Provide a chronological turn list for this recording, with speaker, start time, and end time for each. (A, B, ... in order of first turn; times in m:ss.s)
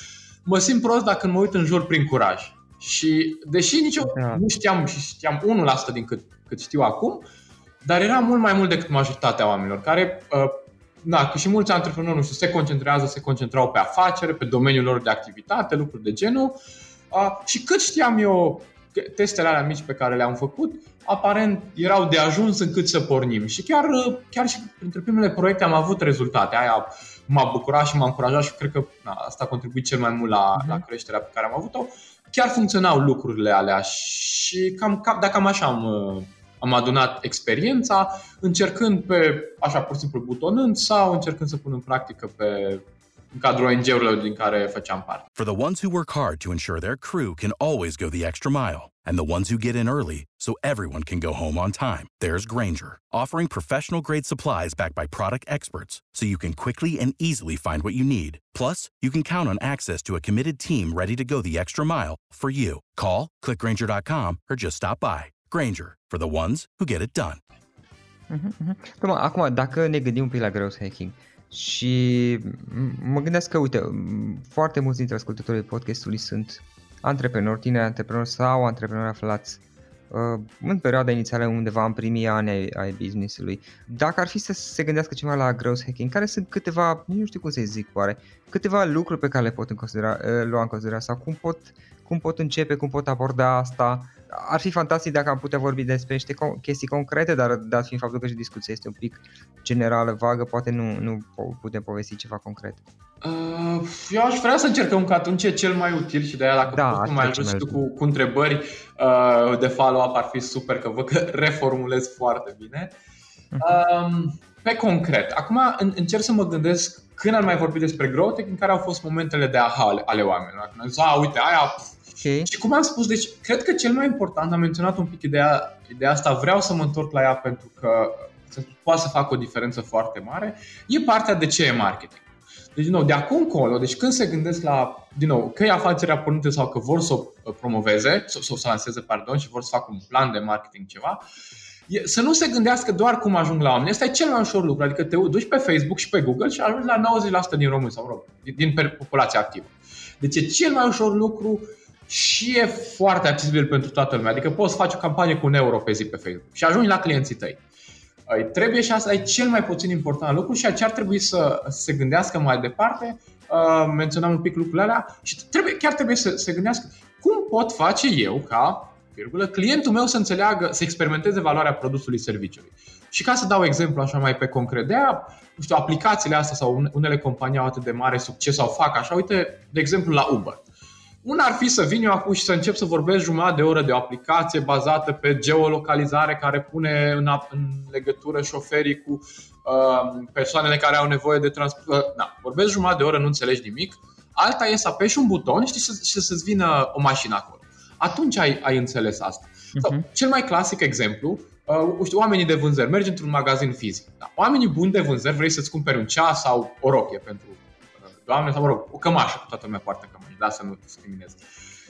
0:00.4-0:07.2 A
0:04.0-0:04.4 B
0:07.8-0:16.6 A
0:17.1-0:42.8 A
0:30.6-0:30.8 B
0:43.3-0:45.2 A
0:45.4-1:07.4 C
1:08.3-1:42.8 B
1:43.2-1:52.9 A
1:46.7-1:47.8 B
1:53.6-2:12.2 A
2:02.2-2:02.5 B
2:12.7-2:21.2 A
2:21.9-2:37.6 A
2:38.3-3:00.6 A
3:01.2-3:27.6 A
3:19.7-3:20.0 B
3:28.2-3:31.4 A